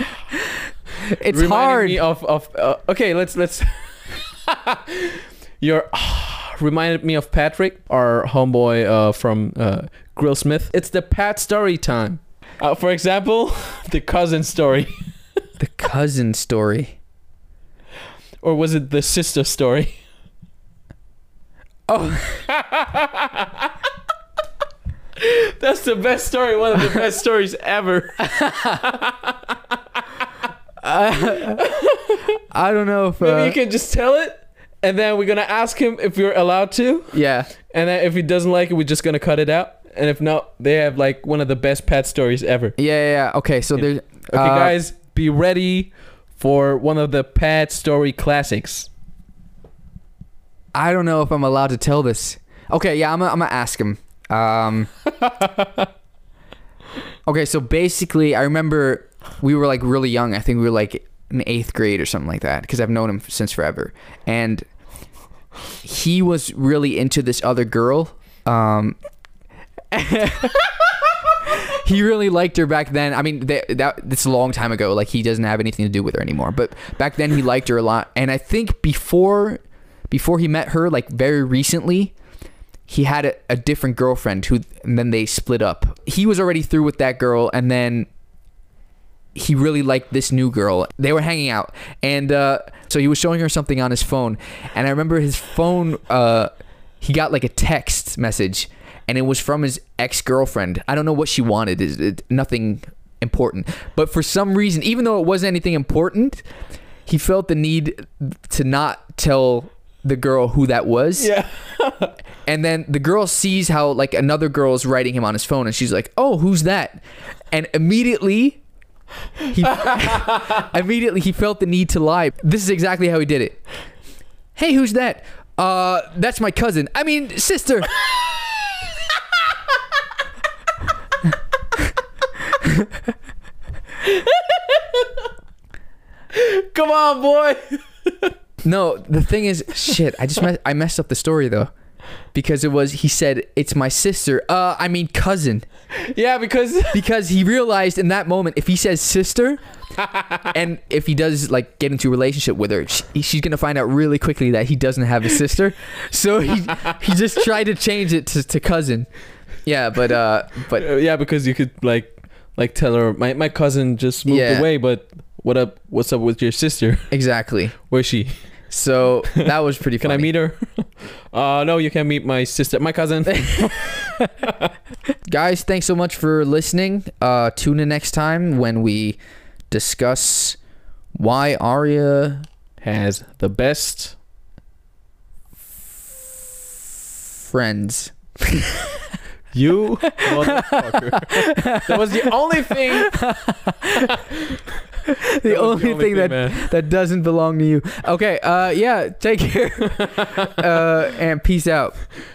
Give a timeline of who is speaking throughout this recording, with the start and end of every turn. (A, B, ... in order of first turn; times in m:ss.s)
0:01.0-0:02.0 A
0:01.3-0:15.0 B
0:15.6-0:17.0 A
0:18.4-0:20.0 B
0:21.9-0:22.4 A
0:22.5-0:23.7 B
0:25.2-0:29.4 B
0:28.4-0:28.8 A
0:30.8-0:31.6 A
0:31.6-0:32.3 B
0:32.5-0:33.6 A
0:33.2-0:42.8 B
0:37.1-0:37.5 A
0:42.8-0:44.8 A
0:43.8-0:48.9 B
0:50.7-0:54.9 A
0:55.2-0:55.9 B
0:57.3-1:04.7 A
1:05.8-1:09.0 A
1:09.9-1:10.9 A
1:11.4-1:22.1 A
1:22.9-1:28.1 A
1:29.4-1:36.5 A
1:37.0-1:46.4 A
1:47.1-1:51.3 A
1:51.2-1:52.2 B
1:52.5-1:58.6 A
1:59.5-2:03.6 A
1:59.7-2:00.6 B
2:04.6-2:07.9 A
2:14.1-2:15.2 B
2:16.3-2:18.3 B
2:18.6-2:21.7 A
2:22.3-2:25.7 A
2:26.0-2:27.0 B
2:26.9-2:29.6 A
2:30.0-2:30.4 B
2:30.5-2:39.1 A
2:39.6-2:40.9 A
2:40.8-2:47.1 B
2:44.3-2:44.7 A
2:47.1-2:47.7 A
2:47.8-2:48.4 B
2:48.7-2:50.3 A
2:50.0-2:54.0 B
2:53.6-2:54.1 A
2:55.3-2:59.2 A
2:59.7-3:00.6 A
3:01.2-3:02.5 A
3:02.8-3:04.2 B
3:07.4-3:09.1 A
3:09.5-3:13.2 B
3:10.2-3:14.1 A
3:15.1-3:22.0 A
3:15.4-3:16.7 B
3:20.0-3:20.6 B